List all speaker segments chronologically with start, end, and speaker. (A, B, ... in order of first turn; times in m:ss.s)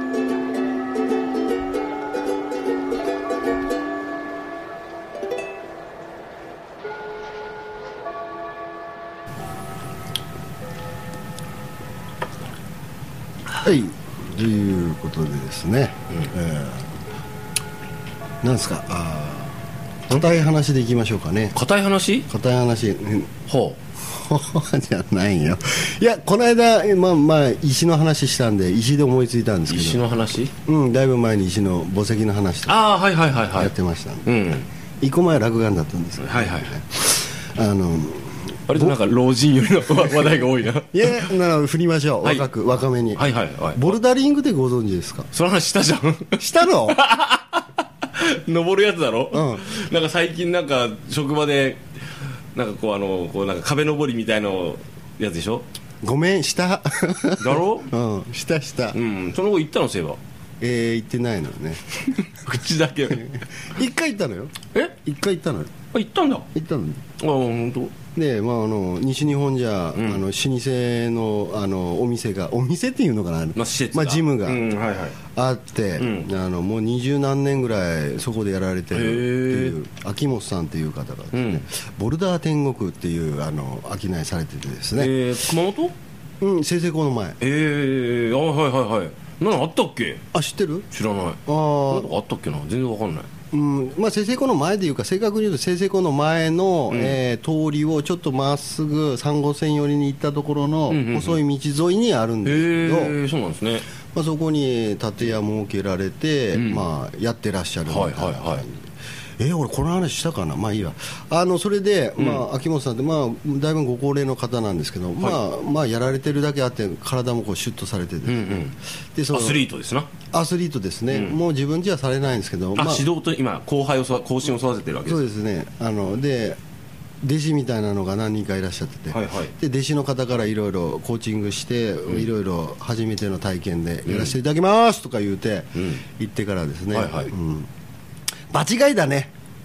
0:13.6-0:16.9 A
0:18.4-0:19.6 A
0:20.1-0:21.6 A
0:21.5-0:22.3 B
0:22.3-0:23.3 A
0:23.5-0:23.8 B
0:24.1-0:30.0 A
0:29.7-0:30.5 B
0:30.6-0:32.8 A
0:32.7-0:33.7 B
0:33.5-0:34.3 A
0:34.2-0:34.7 B
0:35.0-0:39.0 A
0:36.2-0:36.8 B
0:38.7-0:41.3 B
0:40.9-0:45.3 A
0:42.2-0:42.5 B
0:43.1-0:44.0 B
0:45.3-0:55.7 B
0:46.4-0:47.0 A
0:49.3-0:49.6 A
0:56.0-0:59.0 A
0:57.4-0:57.9 B
0:58.9-1:00.2 B
1:00.6-1:01.8 A
1:02.0-1:03.4 B
1:03.1-1:05.7 A
1:05.9-1:06.5 B
1:06.5-1:07.0 A
1:07.2-1:08.0 B
1:08.1-1:14.6 A
1:09.9-1:10.2 B
1:13.6-1:15.2 B
1:15.3-1:25.1 A
1:16.0-1:16.3 B
1:18.9-1:19.8 B
1:21.3-1:21.6 B
1:24.9-1:25.9 B
1:26.4-1:27.4 A
1:27.4-1:30.2 B
1:30.3-1:30.8 A
1:30.9-1:33.3 B
1:31.4-1:32.2 A
1:33.5-1:43.2 A
1:36.9-1:37.2 B
1:40.9-1:41.4 B
1:42.4-1:43.9 B
1:44.1-1:48.8 A
1:46.5-1:46.8 B
1:47.9-1:48.6 B
1:49.4-1:59.7 A
1:52.2-1:52.4 B
1:58.2-1:58.8 B
1:59.3-2:00.1 B
2:00.3-2:03.1 A
2:01.1-2:01.4 B
2:02.7-2:05.2 B
2:05.0-2:06.6 A
2:07.2-2:17.7 A
2:09.1-2:09.5 B
2:14.1-2:14.4 B
2:15.8-2:16.0 B
2:16.9-2:17.3 B
2:18.5-2:19.3 A